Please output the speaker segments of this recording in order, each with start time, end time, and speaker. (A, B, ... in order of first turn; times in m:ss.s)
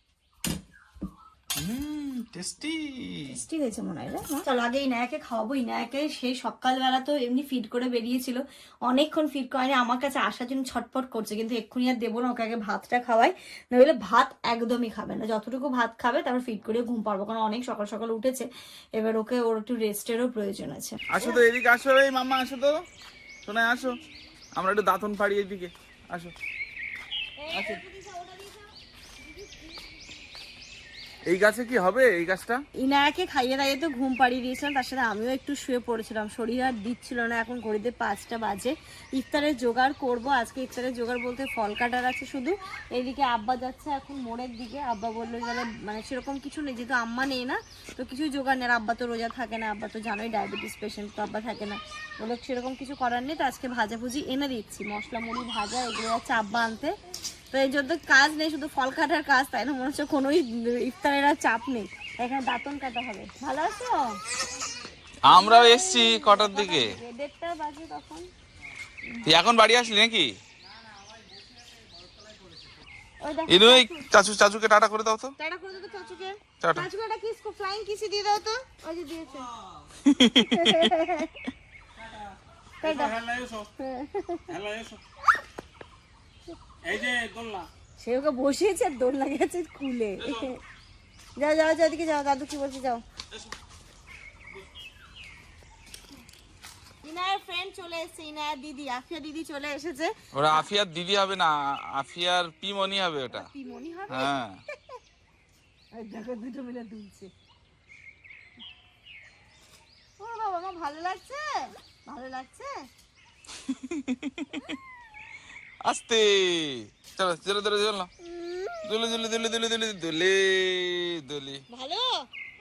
0:01.6-0:03.4 A
0:03.3-0:21.4 B
0:21.1-0:22.8 A
0:23.4-0:24.0 A
0:24.5-0:26.3 A
0:27.4-0:28.7 B
0:27.5-0:27.8 A
0:31.2-0:32.6 A
0:32.8-0:57.0 B
0:57.5-1:04.1 B
1:05.3-1:07.0 A
1:05.3-1:08.3 B
1:09.1-1:09.3 B
1:09.2-1:10.3 A
1:13.2-1:14.1 B
1:13.5-1:15.3 A
1:15.4-1:19.5 B
1:16.6-1:16.9 A
1:20.0-1:21.0 A
1:20.5-1:21.3 B
1:22.0-1:23.7 C
1:22.8-1:23.1 B
1:23.8-1:24.5 B
1:24.5-1:25.0 C
1:26.8-1:27.7 C
1:28.0-1:30.6 B
1:30.2-1:30.5 C
1:31.4-1:33.0 B
1:37.0-1:40.6 B
1:40.3-1:43.5 A
1:43.3-1:44.3 B
1:44.1-1:44.6 A
1:45.9-1:47.3 B
1:50.2-1:52.8 B
1:53.6-1:54.8 A
1:55.8-1:58.1 A
1:58.8-2:01.6 A
2:01.7-2:02.3 B